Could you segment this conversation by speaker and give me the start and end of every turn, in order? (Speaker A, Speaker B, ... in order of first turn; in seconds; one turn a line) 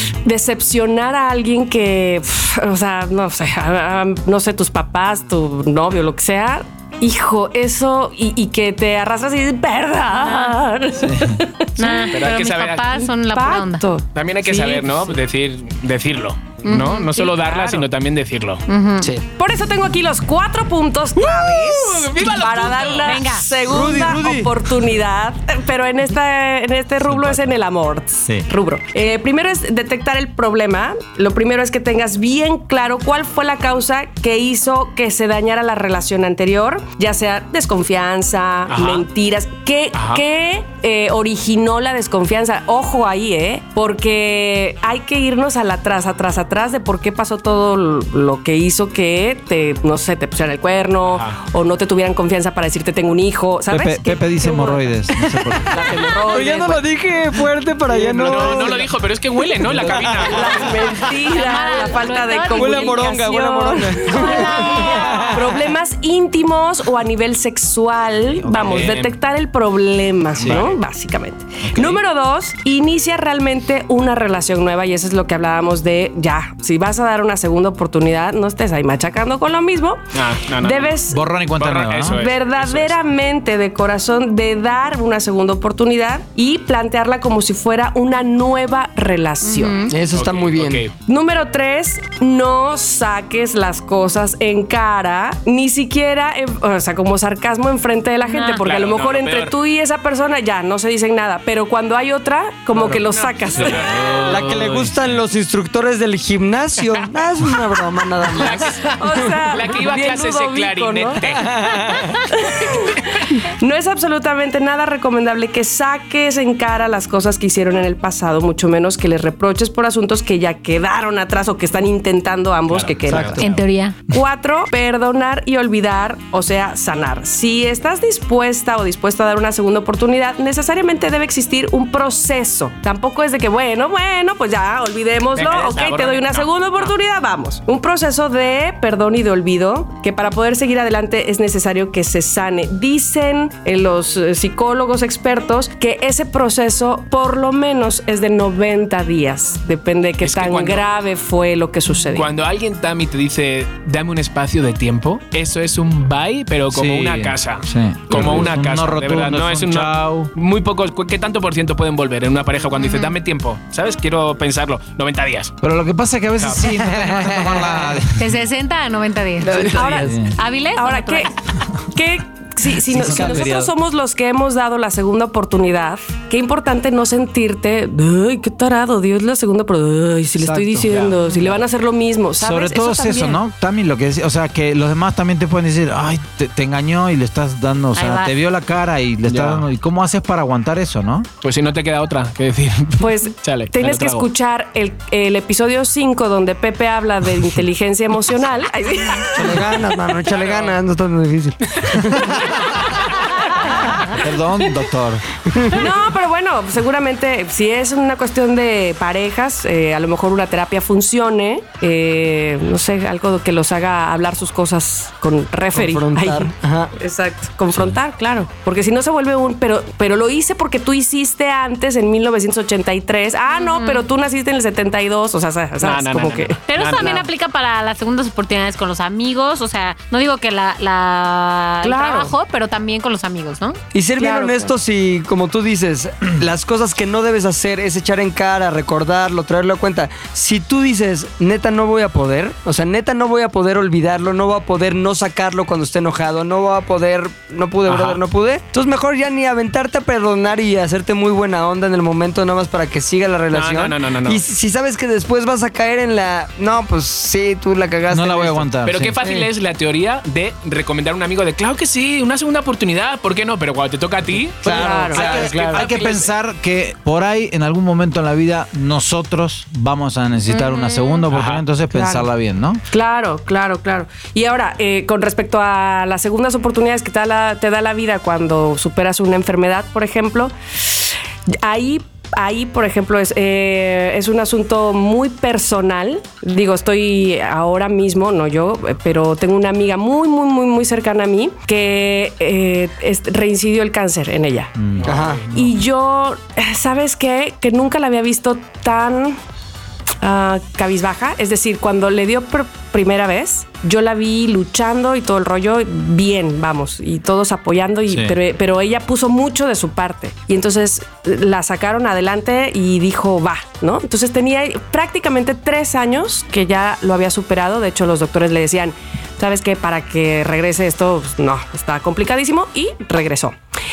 Speaker A: 0.2-12.1
Speaker B: 10.2-10.6
Speaker C: 11.0-11.4
Speaker B: 11.8-13.8
Speaker D: 12.1-12.9
Speaker A: 12.9-15.2
Speaker D: 14.1-18.6
Speaker B: 16.6-17.3
Speaker A: 17.2-17.9
Speaker B: 18.7-19.1
Speaker A: 19.4-54.9
Speaker D: 21.2-23.4
Speaker B: 23.0-23.5
Speaker E: 23.6-24.5
Speaker C: 27.0-27.5
Speaker D: 38.7-39.1
Speaker D: 39.9-40.2
Speaker D: 51.1-51.4
Speaker C: 53.7-55.9
Speaker E: 55.2-55.7
Speaker A: 55.7-56.9
Speaker E: 56.3-58.9
Speaker C: 58.0-58.7
Speaker D: 58.2-61.0
Speaker E: 59.6-60.3
Speaker C: 59.7-60.3
Speaker A: 60.2-81.2
Speaker B: 61.1-63.1
Speaker E: 62.5-65.6
Speaker B: 64.0-65.4
Speaker C: 68.3-69.0
Speaker D: 68.5-69.2
Speaker C: 70.4-70.7
Speaker D: 70.4-70.8
Speaker C: 71.6-72.0
Speaker D: 80.1-81.0
Speaker C: 81.1-82.2
Speaker D: 81.6-83.0
Speaker A: 82.0-89.8
Speaker B: 89.4-89.9
Speaker E: 89.9-90.9
Speaker D: 90.1-90.9
Speaker A: 91.0-104.2
Speaker B: 98.2-98.7
Speaker D: 98.6-99.5
Speaker D: 102.8-104.9
Speaker C: 103.5-105.0
Speaker E: 104.3-109.3
Speaker D: 108.3-112.1
Speaker A: 109.0-123.5
Speaker E: 111.4-112.1
Speaker D: 122.7-123.5
Speaker E: 123.1-123.5
Speaker B: 123.4-124.0
Speaker A: 124.1-152.3
Speaker D: 135.3-136.9
Speaker D: 150.2-150.8
Speaker D: 152.1-165.5
Speaker C: 156.7-160.3
Speaker B: 162.8-163.2
Speaker C: 165.6-168.4
Speaker D: 166.4-166.7
Speaker E: 166.8-168.0
Speaker B: 168.2-171.3
Speaker E: 169.4-170.2
Speaker A: 169.7-170.2
Speaker C: 170.0-170.3
Speaker A: 170.8-171.3
Speaker A: 171.9-183.4
Speaker C: 172.8-173.7
Speaker E: 173.0-173.5
Speaker E: 180.4-180.9
Speaker D: 180.8-181.4
Speaker C: 182.4-191.3
Speaker B: 187.9-188.3
Speaker D: 189.3-189.7
Speaker D: 191.4-194.3
Speaker A: 193.0-199.9
Speaker E: 199.3-202.4
Speaker D: 200.3-200.8
Speaker C: 202.1-203.0
Speaker C: 204.1-205.2
Speaker E: 205.5-205.8
Speaker A: 205.7-226.6
Speaker E: 215.7-216.9
Speaker B: 223.5-224.1
Speaker D: 225.8-227.2
Speaker B: 226.7-233.8
Speaker A: 231.8-232.3
Speaker E: 233.9-259.5
Speaker A: 234.2-234.8
Speaker D: 247.9-248.2
Speaker D: 253.5-254.4
Speaker C: 258.1-259.2
Speaker D: 258.9-266.3
Speaker C: 264.6-272.8
Speaker A: 264.6-266.0
Speaker B: 270.5-271.2
Speaker D: 271.3-271.6
Speaker A: 271.9-272.3
Speaker A: 272.9-294.7
Speaker C: 294.8-295.1
Speaker D: 295.1-295.3
Speaker E: 295.1-295.5
Speaker A: 295.5-299.4
Speaker A: 300.2-323.6
Speaker C: 308.1-308.4